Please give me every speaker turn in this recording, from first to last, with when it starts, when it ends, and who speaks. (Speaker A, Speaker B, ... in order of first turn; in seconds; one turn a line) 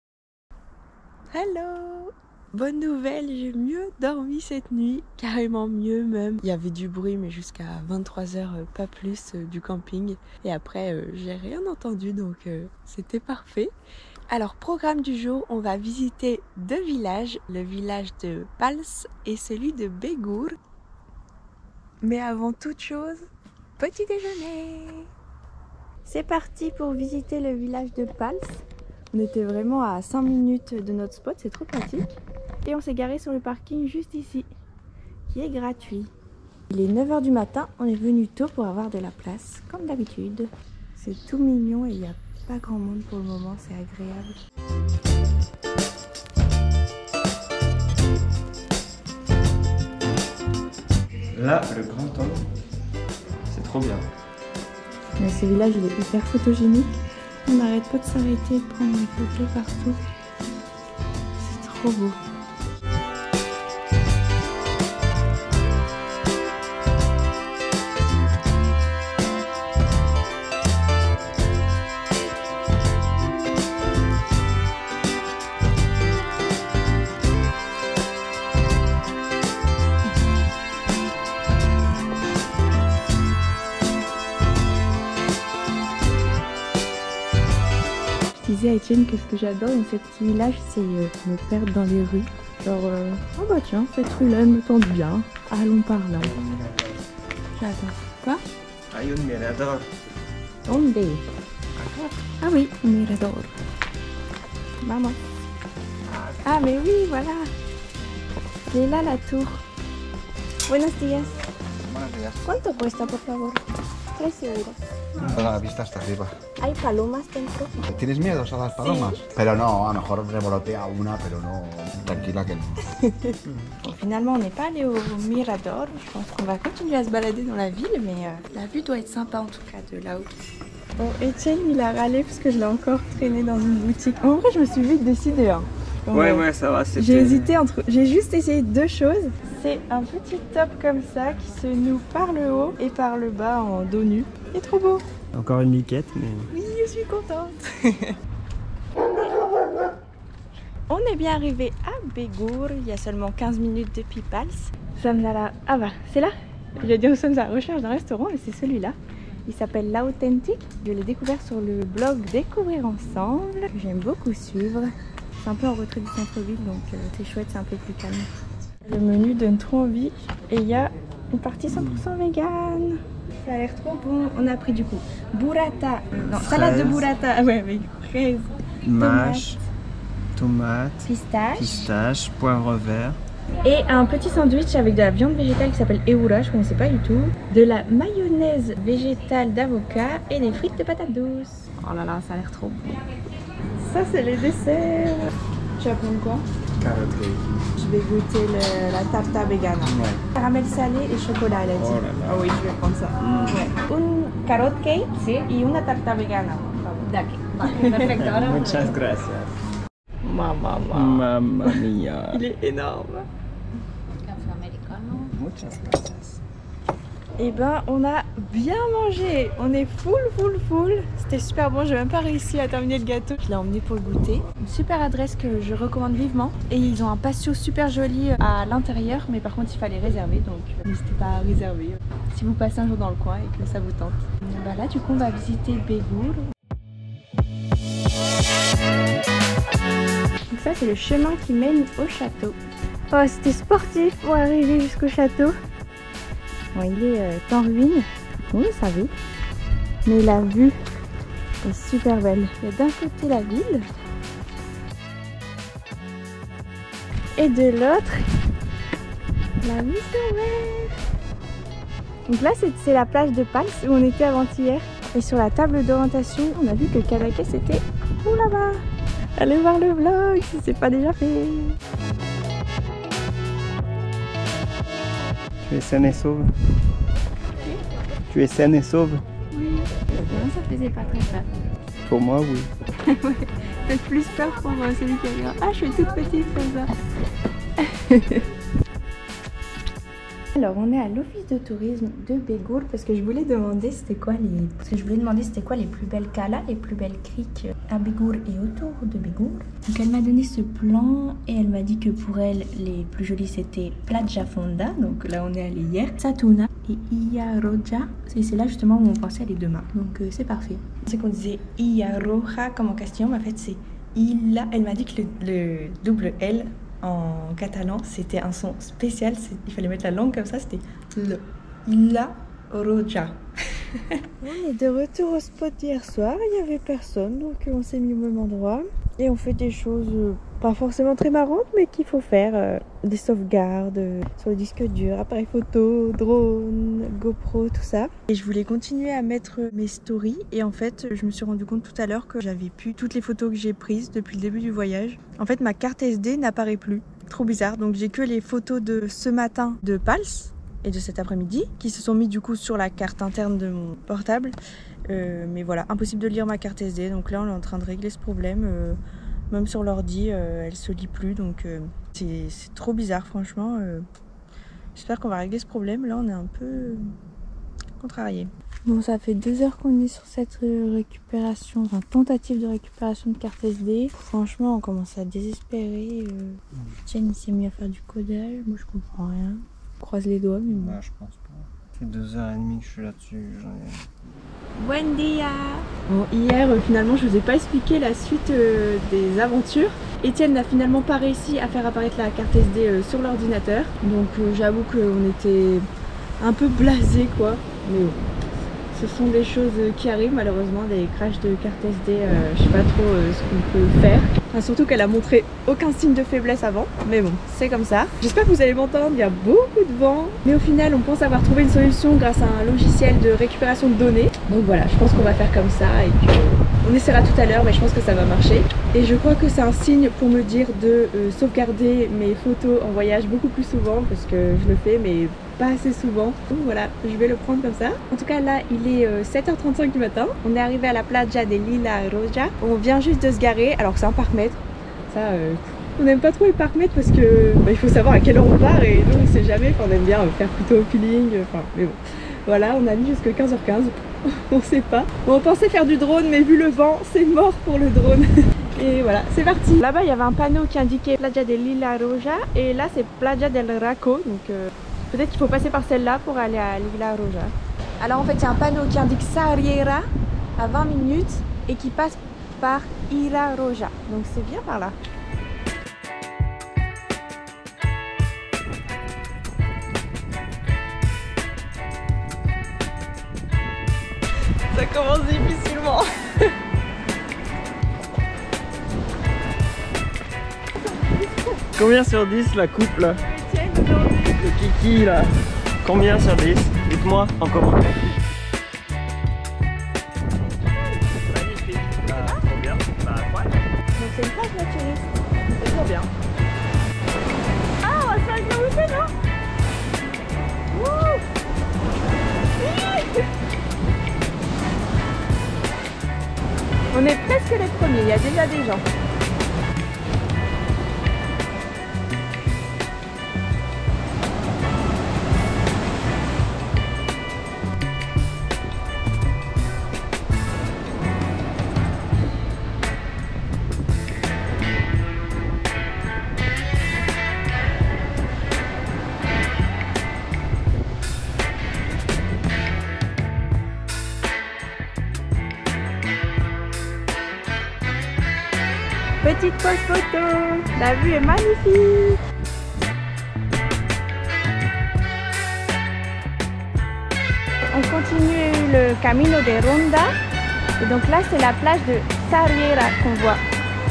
Speaker A: 1.3-13.7
Speaker A: 14.3-20.6
Speaker A: 22.0-23.3
Speaker A: 23.8-25.1
Speaker A: 26.1-34.5
Speaker A: 35.3-36.1
Speaker A: 36.7-44.4
Speaker B: 51.3-52.5
Speaker B: 53.5-54.1
Speaker A: 55.2-60.0
Speaker A: 61.4-62.2
Speaker A: 88.4-96.3
Speaker B: 96.2-97.0
Speaker A: 97.6-98.4
Speaker B: 98.9-99.8
Speaker A: 100.7-101.2
Speaker B: 101.8-102.2
Speaker A: 102.4-103.5
Speaker A: 104.8-105.2
Speaker B: 106.1-106.4
Speaker A: 106.4-107.5
Speaker A: 108.7-109.6
Speaker A: 110.7-111.3
Speaker B: 111.9-112.3
Speaker A: 112.5-113.6
Speaker A: 114.2-114.8
Speaker C: 115.2-116.3
Speaker A: 116.6-117.8
Speaker C: 117.8-122.9
Speaker A: 118.8-119.3
Speaker A: 122.8-130.3
Speaker A: 131.0-145.1
Speaker B: 136.1-137.6
Speaker B: 145.3-146.5
Speaker A: 146.5-148.2
Speaker A: 150.9-168.3
Speaker A: 168.9-179.5
Speaker B: 171.7-172.1
Speaker B: 176.2-177.1
Speaker B: 178.8-179.6
Speaker B: 180.3-183.2
Speaker A: 181.1-181.9
Speaker A: 183.6-192.9
Speaker A: 193.8-196.4
Speaker B: 196.8-197.7
Speaker A: 197.8-209.0
Speaker B: 199.8-200.2
Speaker B: 201.8-202.5
Speaker B: 203.2-203.7
Speaker B: 207.7-209.5
Speaker A: 210.2-213.3
Speaker B: 210.9-212.4
Speaker B: 214.4-216.4
Speaker A: 214.7-215.0
Speaker A: 217.4-236.5
Speaker A: 240.5-242.6
Speaker A: 243.1-245.5
Speaker A: 246.7-249.1
Speaker A: 250.1-250.8
Speaker A: 251.6-253.9
Speaker A: 257.4-258.3
Speaker A: 259.6-261.0
Speaker A: 262.3-268.8
Speaker A: 269.4-271.8
Speaker B: 275.6-276.5
Speaker B: 278.3-279.2
Speaker A: 279.5-281.5
Speaker B: 282.0-282.7
Speaker A: 283.0-286.9
Speaker A: 287.8-288.4
Speaker A: 290.6-323.4
Speaker A: 323.9-354.6
Speaker A: 355.1-359.0
Speaker A: 359.5-364.1
Speaker A: 364.9-367.1
Speaker A: 368.0-381.0
Speaker B: 380.7-384.5
Speaker A: 384.8-395.9
Speaker A: 396.4-398.2
Speaker A: 398.9-460.1
Speaker A: 460.6-465.0
Speaker A: 474.7-476.5
Speaker A: 480.8-481.7
Speaker B: 481.8-483.2
Speaker A: 483.1-484.5
Speaker B: 484.4-485.3
Speaker B: 485.8-487.9
Speaker B: 491.2-493.6
Speaker A: 492.1-492.5
Speaker A: 494.0-496.1
Speaker A: 497.8-499.1
Speaker A: 500.7-501.2
Speaker A: 502.6-503.3
Speaker A: 506.9-508.8
Speaker A: 539.2-542.2
Speaker A: 547.7-550.1
Speaker A: 550.8-553.4